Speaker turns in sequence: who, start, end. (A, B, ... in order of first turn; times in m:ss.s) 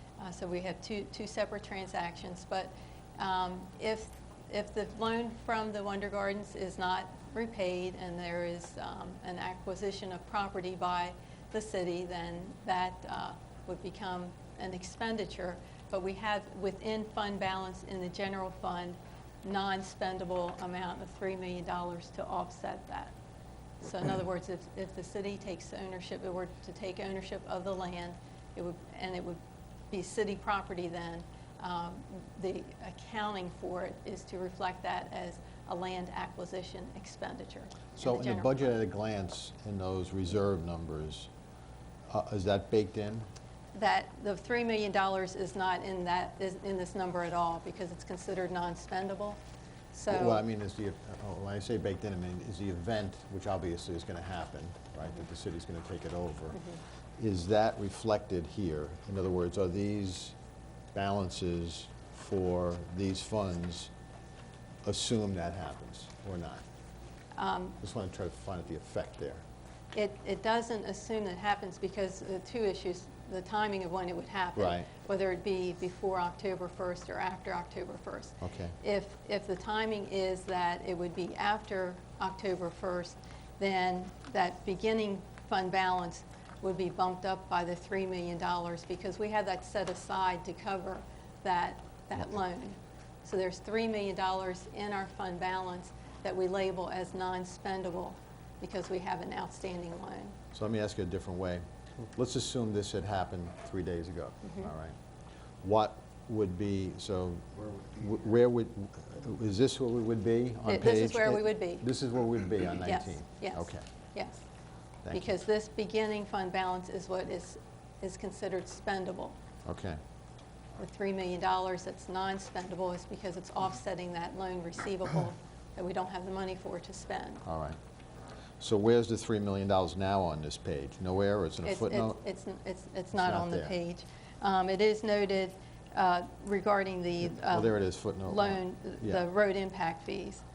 0:00.2-0:23.2 A
0:23.8-0:38.7 A
0:38.0-0:41.3 B
0:42.1-0:43.3 B
0:43.7-0:49.4 A
0:49.9-0:50.4 A
0:50.1-1:00.4 B
1:00.9-1:03.9 B
1:04.8-1:06.6 B
1:07.4-1:07.8 A
1:07.8-1:09.4 B
1:09.9-1:40.4 A
1:14.6-1:14.9 B
1:18.4-1:18.8 B
1:40.5-1:45.0 B
1:44.4-1:44.7 A
1:45.6-1:53.8 B
1:50.7-1:51.9 A
1:52.8-1:54.4 A
1:55.0-1:55.4 B
1:55.1-1:59.4 A
1:59.6-2:00.0 B
2:00.8-2:07.4 A
2:07.4-2:07.8 B
2:08.6-2:12.2 B
2:11.6-2:20.4 A
2:13.1-2:13.8 B
2:17.4-2:19.2 B